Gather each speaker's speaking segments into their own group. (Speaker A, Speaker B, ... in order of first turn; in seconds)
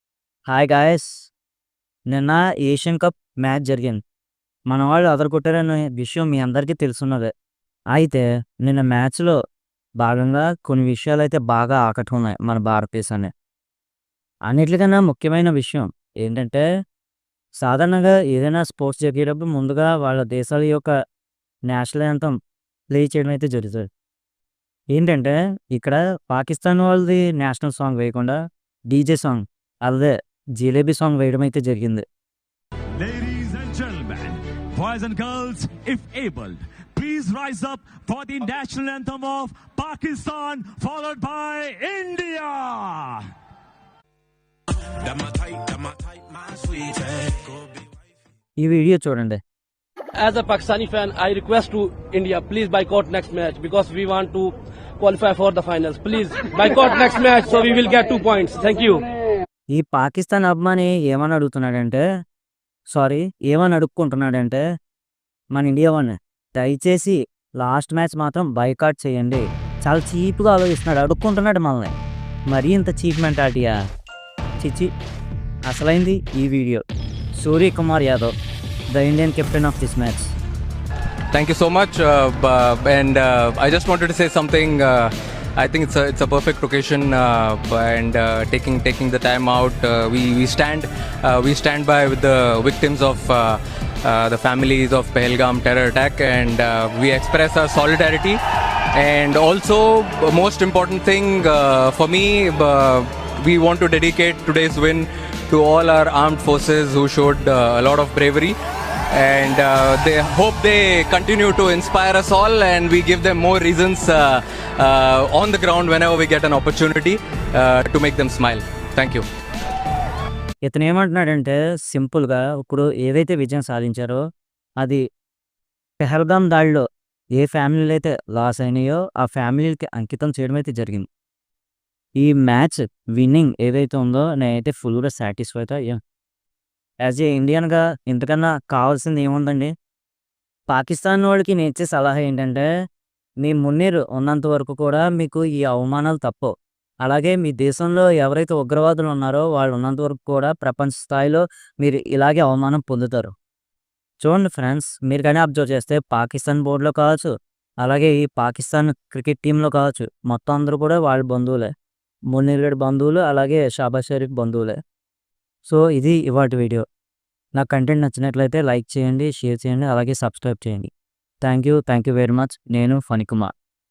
Speaker A: 0.5-1.3, 2.1-4.0, 4.7-7.3, 7.9-9.4, 10.0-13.3, 14.5-16.6, 17.6-20.9, 21.7-22.4, 22.9-23.9, 24.9-32.0, 48.6-49.4, 59.7-62.0, 62.9-64.6, 65.5-71.9, 72.5-73.8, 74.6-74.9, 75.7-76.8, 77.4-78.3, 78.9-80.3, 120.7-124.2, 126.0-126.8, 127.4-131.1, 132.2-136.0, 137.0-139.7, 140.7-142.7, 143.4-146.5, 147.0-153.3, 154.2-157.3, 157.8-161.7, 162.3-164.8, 165.7-166.8, 167.6-170.9, 171.4-173.5
Speaker B: 33.0-43.3, 45.0-47.6
Speaker C: 50.1-59.1
Speaker D: 81.3-98.4, 98.9-108.6, 109.1-119.3